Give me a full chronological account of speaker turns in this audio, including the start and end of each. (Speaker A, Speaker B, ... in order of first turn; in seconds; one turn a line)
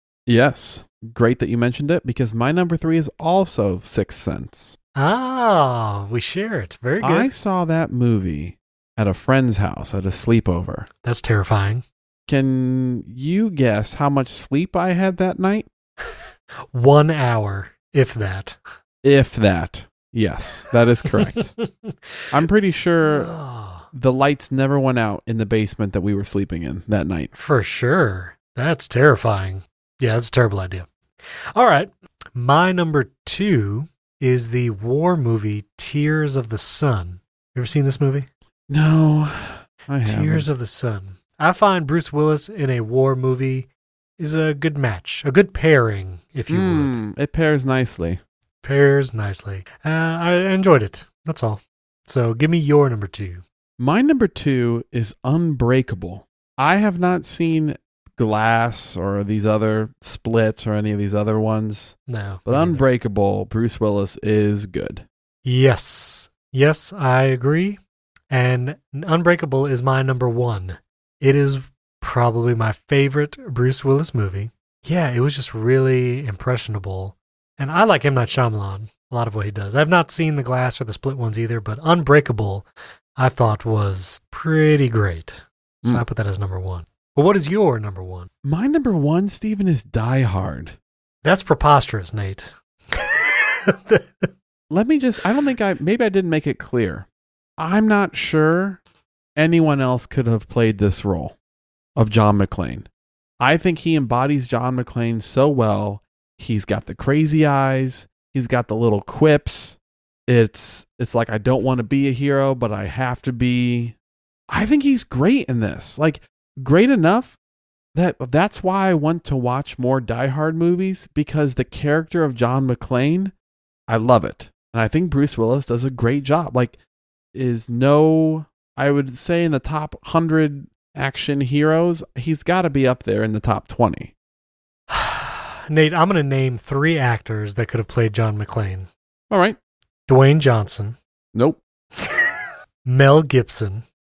Speaker A: 0.3-4.8
Speaker B: 5.0-7.3
Speaker A: 7.0-10.9
Speaker B: 11.0-11.8
Speaker A: 12.3-15.7
Speaker B: 16.7-18.6
Speaker A: 19.0-21.5
Speaker B: 21.1-22.3
Speaker A: 22.3-23.3
Speaker B: 23.0-23.9
Speaker A: 23.9-27.3
Speaker B: 27.3-30.9
Speaker B: 31.5-38.3
Speaker A: 38.7-40.5
Speaker B: 40.0-43.7
Speaker B: 44.2-47.0
Speaker A: 46.5-48.2
Speaker B: 48.6-53.4
Speaker A: 53.8-65.0
Speaker B: 62.1-62.9
Speaker B: 65.4-67.8
Speaker B: 68.3-82.7
Speaker B: 83.2-88.3
Speaker A: 88.4-90.8
Speaker B: 91.2-94.3
Speaker A: 94.7-97.1
Speaker A: 97.6-98.8
Speaker A: 99.3-101.3
Speaker A: 102.0-102.9
Speaker A: 103.4-113.9
Speaker A: 114.5-117.4
Speaker A: 117.9-123.3
Speaker A: 123.9-126.8
Speaker A: 127.3-134.1
Speaker B: 134.9-138.9
Speaker A: 139.3-139.6
Speaker B: 140.1-141.0
Speaker A: 141.3-141.6
Speaker B: 142.0-142.3
Speaker B: 142.8-143.8